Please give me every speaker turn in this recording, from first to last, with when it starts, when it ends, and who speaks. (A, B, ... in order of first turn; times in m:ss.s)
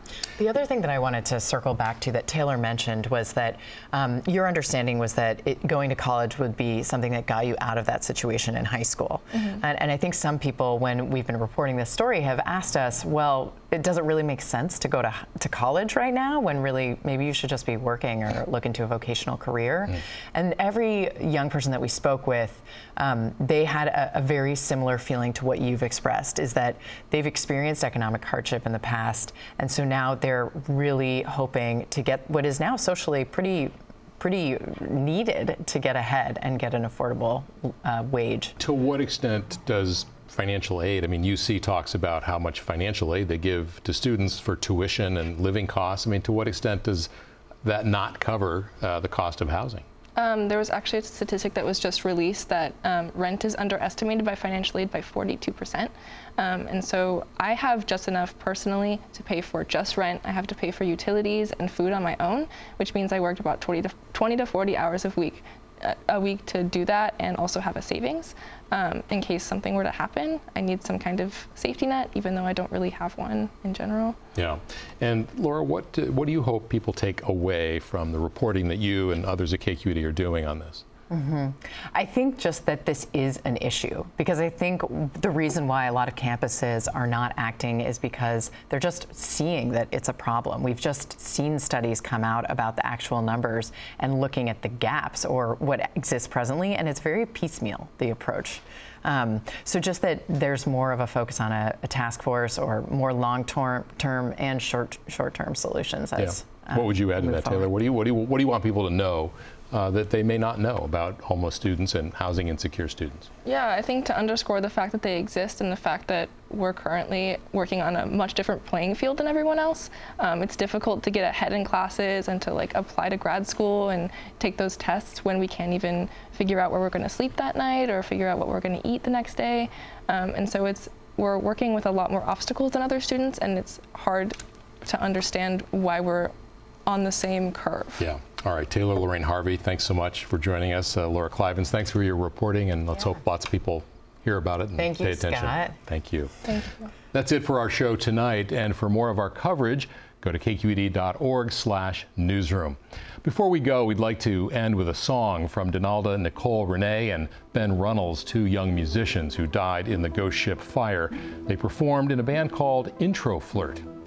0:00.4-0:38.6 A
0:38.6-0:47.1 B
0:47.6-0:49.8 B
0:50.2-1:14.2 C
1:14.4-1:20.8 B
1:21.1-1:47.7 A
1:46.2-1:53.3 B
1:53.4-2:16.3 C
2:16.9-2:18.1 C
2:18.0-2:26.3 B
2:24.8-2:25.8 A
2:26.5-2:26.7 C
2:27.1-2:43.9 B